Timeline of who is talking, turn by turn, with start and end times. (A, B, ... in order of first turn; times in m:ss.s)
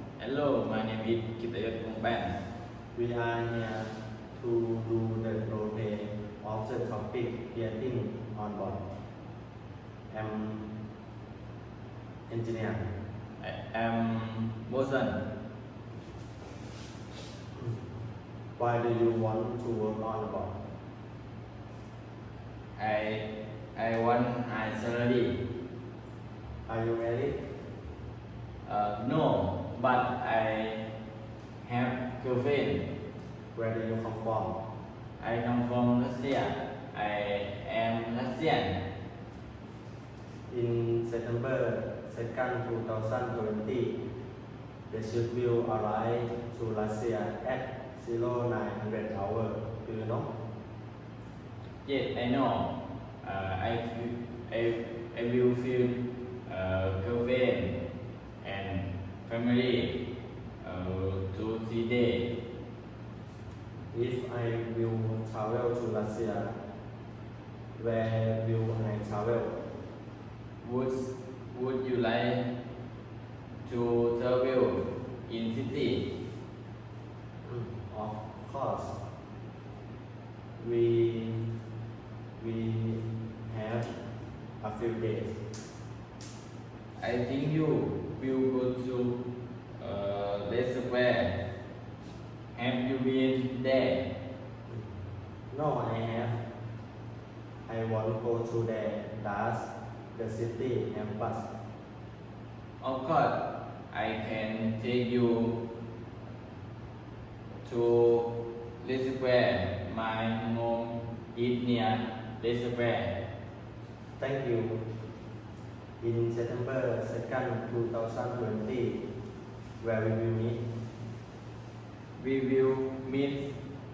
0:00.2-0:02.4 A
0:02.9-0:08.8 B
0:10.1-0:10.7 B
0:12.3-0:12.9 B
0:13.4-0:15.2 A
0:18.6-0:20.6 B
0:22.8-0:25.4 A
0:26.7-0:27.4 B
0:28.6-0:30.9 A
0:31.6-0:32.9 A
0:33.5-0:34.6 B
0:35.2-0:38.8 A
0:40.5-0:44.0 B
0:44.9-0:50.3 B
0:51.8-0:57.8 A
0:58.4-1:00.0 A
1:00.6-1:02.3 A
1:03.9-1:06.6 B
1:07.8-1:09.6 B
1:10.6-1:12.4 A
1:13.6-1:16.1 A
1:17.4-1:19.0 B
1:20.6-1:21.5 B
1:22.4-1:23.9 B
1:24.6-1:25.4 B
1:27.0-1:29.2 A
1:29.8-1:31.4 A
1:32.5-1:34.1 A
1:35.5-1:36.4 B
1:37.7-1:41.5 B
1:42.8-1:45.6 A
1:47.6-1:53.2 A
1:54.2-1:54.8 B
1:56.0-1:59.0 B
1:59.8-2:00.6 B
2:02.2-2:03.5 A